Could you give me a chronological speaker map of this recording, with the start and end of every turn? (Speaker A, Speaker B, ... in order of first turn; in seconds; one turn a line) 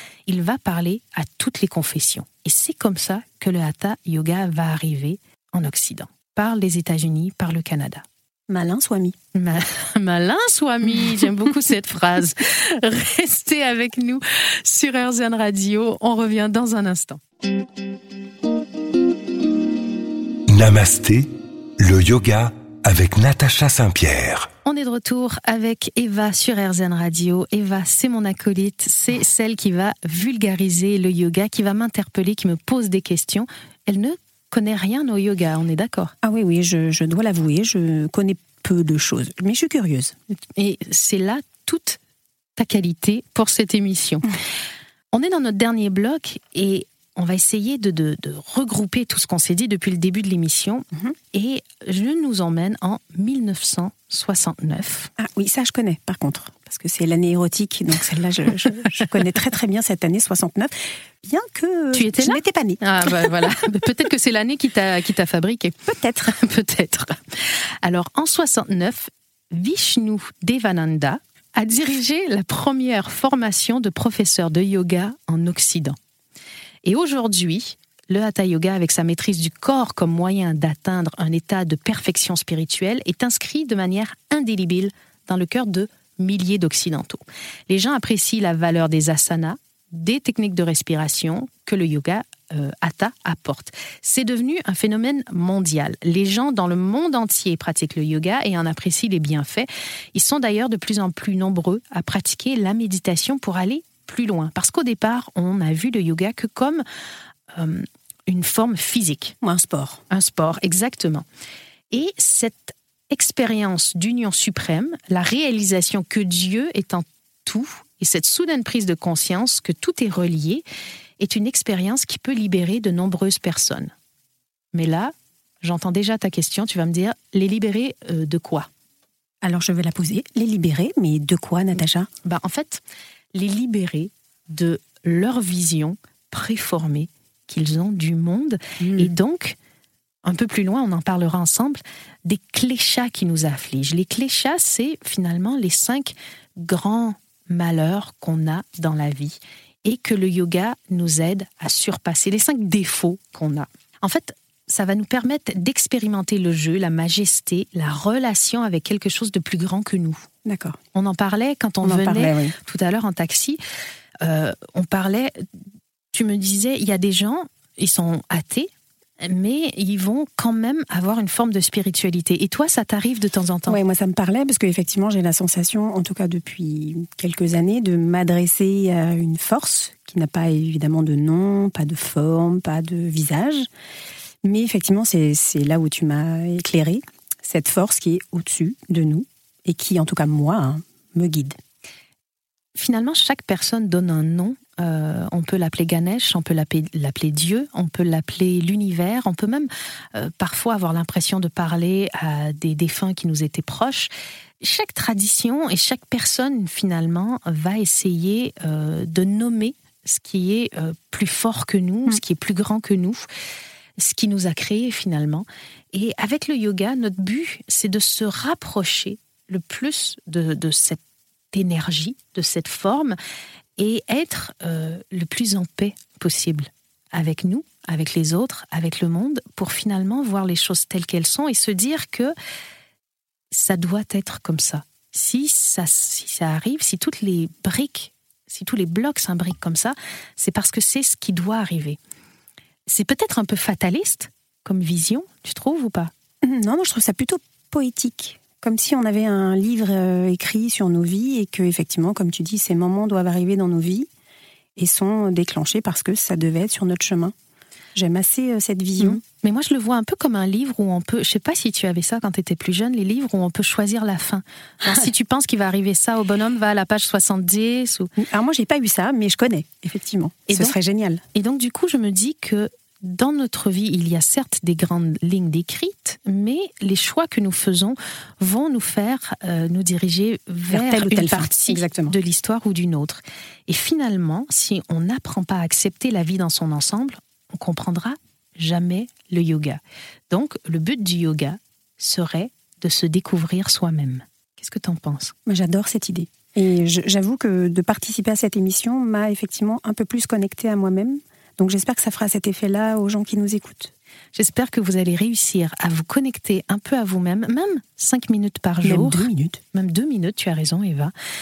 Speaker A: 0.2-8.0
Speaker B: 8.5-9.2
Speaker A: 9.3-17.2
Speaker C: 20.5-24.5
Speaker A: 24.6-36.1
Speaker B: 36.2-40.1
Speaker A: 40.5-42.0
Speaker A: 42.6-44.3
Speaker A: 45.1-55.1
Speaker B: 55.2-63.4
Speaker A: 61.9-76.0
Speaker B: 65.9-66.3
Speaker A: 76.8-106.8
Speaker A: 107.5-109.3
Speaker B: 109.4-110.0
Speaker A: 110.1-111.2
Speaker A: 111.9-120.6
Speaker A: 121.2-123.9
Speaker A: 124.7-128.7
Speaker B: 129.4-132.1
Speaker A: 132.2-132.8
Speaker A: 133.3-139.6
Speaker B: 138.8-139.1
Speaker A: 140.2-160.2
Speaker B: 160.4-160.8
Speaker A: 160.9-163.6
Speaker B: 161.8-162.5
Speaker A: 164.2-165.5
Speaker A: 166.1-173.8
Speaker B: 173.7-183.7
Speaker B: 184.4-191.6
Speaker A: 192.7-204.1
Speaker A: 204.6-213.2
Speaker A: 214.0-223.2
Speaker A: 223.8-232.3
Speaker A: 233.5-242.0
Speaker A: 242.9-246.1
Speaker B: 246.4-254.1
Speaker B: 254.8-257.3
Speaker B: 257.9-259.2
Speaker A: 259.0-268.1
Speaker B: 268.2-271.2
Speaker A: 270.5-270.8
Speaker A: 271.3-295.3
Speaker B: 280.7-282.2
Speaker B: 295.4-303.9
Speaker A: 304.3-311.1
Speaker B: 308.8-309.6